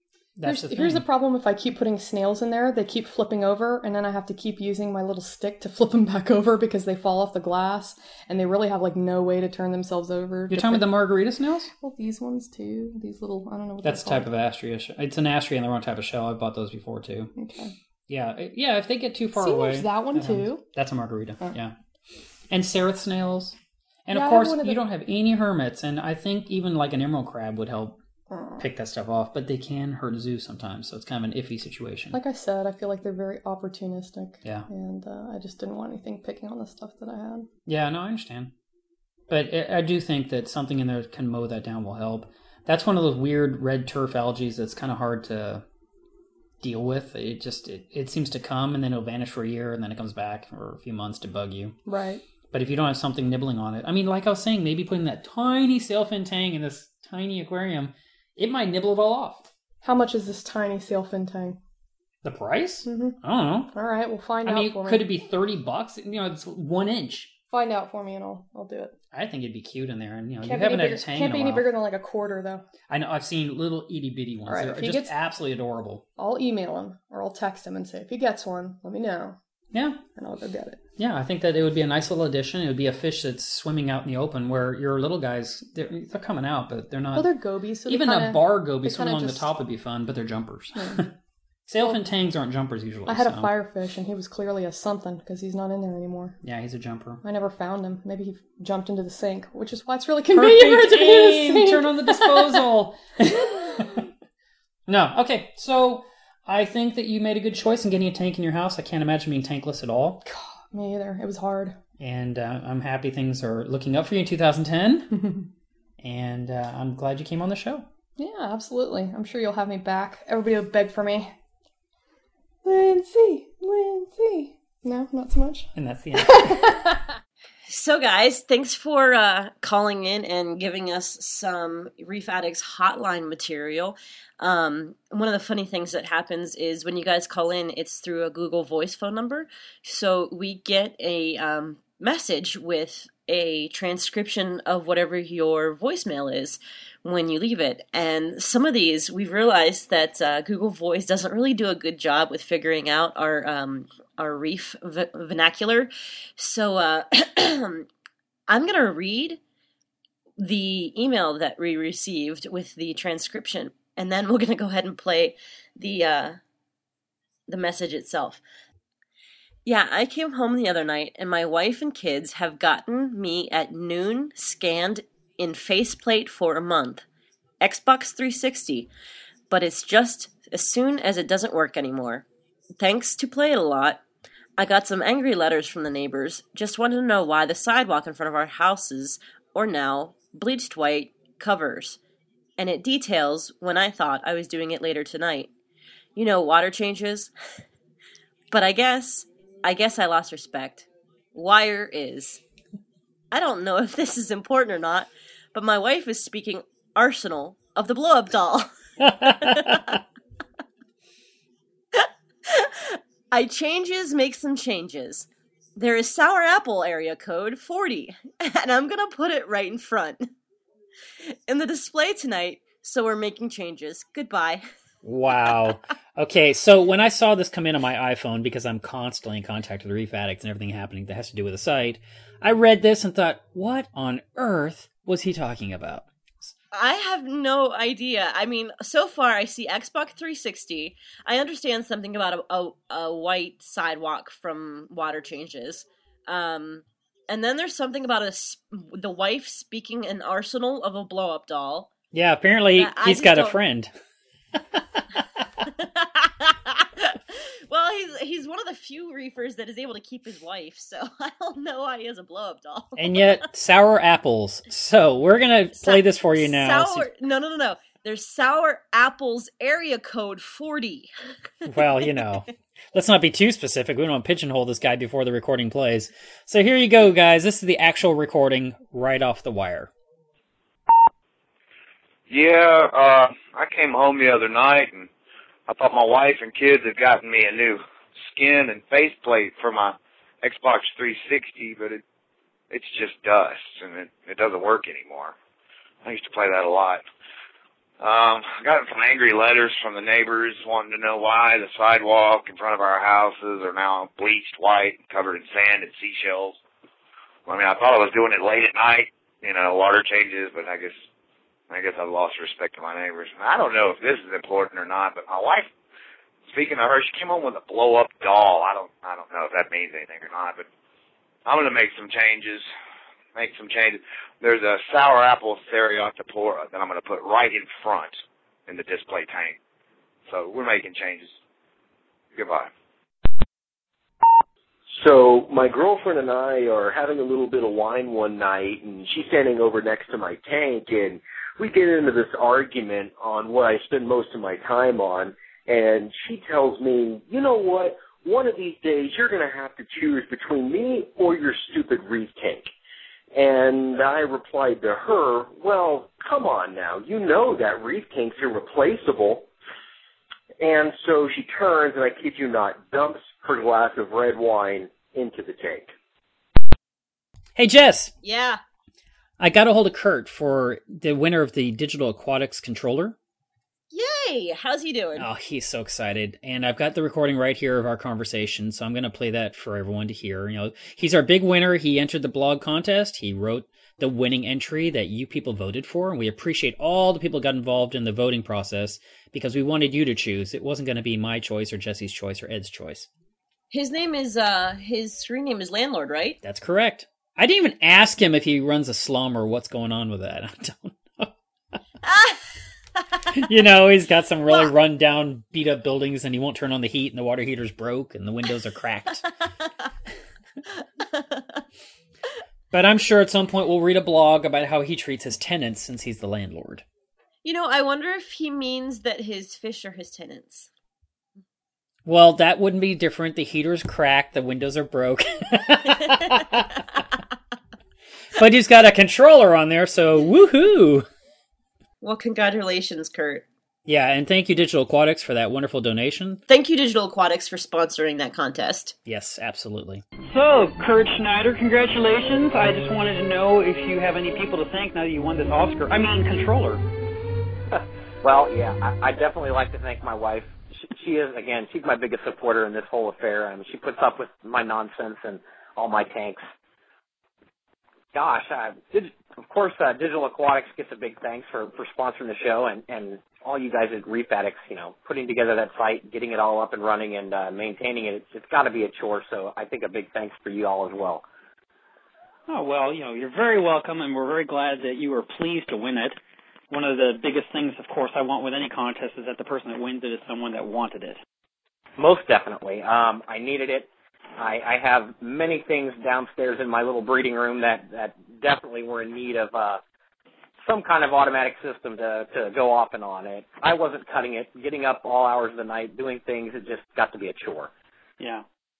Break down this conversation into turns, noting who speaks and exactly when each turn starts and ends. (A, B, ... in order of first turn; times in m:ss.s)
0:00.3-0:01.0 A
0:00.4-0:10.9 B
0:10.5-0:11.7 A
0:11.8-0:14.3 B
0:13.8-0:17.3 A
0:17.4-0:17.7 B
0:18.1-0:21.8 A
0:19.4-0:20.6 B
0:22.5-0:28.0 A
0:24.1-0:24.8 B
0:28.3-0:28.6 B
0:28.6-0:32.2 A
0:32.1-0:37.5 B
0:34.4-0:34.7 A
0:37.6-0:38.5 A
0:39.3-0:45.6 A
0:46.6-0:51.8 A
0:51.8-0:52.2 B
0:52.5-0:59.5 A
0:59.8-1:01.6 B
1:02.2-1:03.7 A
1:02.8-1:03.2 B
1:03.7-1:05.0 B
1:04.4-1:07.3 A
1:07.5-1:08.9 B
1:09.1-1:11.7 A
1:10.4-1:12.6 B
1:12.9-1:16.0 A
1:14.5-1:15.1 B
1:16.2-1:19.4 B
1:19.7-1:20.0 A
1:20.1-1:20.8 B
1:21.0-1:27.3 A
1:27.1-1:29.5 B
1:27.8-1:31.1 A
1:30.8-1:31.1 B
1:31.7-1:33.5 A
1:33.1-1:36.4 B
1:36.4-1:37.2 A
1:37.2-1:42.7 B
1:40.3-1:44.1 A
1:43.2-1:44.1 B
1:44.9-1:50.2 A
1:50.2-1:51.8 B
1:52.0-1:55.1 A
1:55.2-1:55.5 B
1:56.0-1:57.8 A
1:58.2-2:01.3 B
2:02.6-2:07.0 B
2:05.7-2:06.7 A
2:07.7-2:37.9 C
2:38.5-2:39.4 C
2:40.4-2:46.4 C
2:47.5-2:48.4 C
2:49.6-2:57.0 C
2:57.6-2:58.9 C
2:59.5-3:02.2 C
3:02.8-3:04.0 C
3:04.6-3:12.0 C
3:12.6-3:15.5 C
3:16.2-3:17.3 C
3:18.5-3:22.4 C
3:23.3-3:30.0 C
3:29.0-3:29.8 A
3:31.9-3:40.3 C
3:41.5-3:44.6 C
3:45.0-3:56.5 A
3:56.7-4:11.9 C
4:12.1-4:13.9 A
4:12.8-4:13.6 C
4:14.6-4:15.4 A
4:15.8-4:23.4 C
4:23.0-4:27.1 A
4:25.8-4:31.1 C
4:31.6-4:39.9 A
4:42.3-4:45.1 D
4:45.7-4:47.8 D
4:48.3-4:52.0 D
4:52.7-4:55.3 D
4:56.0-4:57.0 D
4:58.0-5:06.6 D
5:07.5-5:11.0 D
5:11.7-5:15.7 D
5:16.5-5:20.6 D
5:21.4-5:22.6 D
5:23.3-5:29.6 D
5:30.3-5:31.3 D
5:32.3-5:32.7 D
5:35.0-5:52.7 E
5:53.3-5:59.5 E
6:00.6-6:05.9 E
6:07.6-6:08.1 A
6:08.2-6:08.6 C
6:09.4-6:13.2 A
6:13.9-6:15.3 C
6:15.2-6:33.1 A
6:33.7-6:36.4 C
6:36.4-6:41.8 A
6:43.3-6:49.3 A
6:51.1-6:51.6 C
6:52.7-6:56.8 A
6:57.4-7:00.7 C
7:02.0-7:06.8 A
7:08.3-7:11.1 A
7:12.0-7:13.4 C
7:13.8-7:16.4 A
7:16.5-7:18.9 C
7:19.0-7:20.0 A
7:20.3-7:26.8 F
7:27.7-7:36.4 G
7:38.1-7:51.2 G
7:52.5-7:56.2 F
7:56.7-8:01.2 F
8:02.0-8:09.8 G
8:10.6-8:17.7 G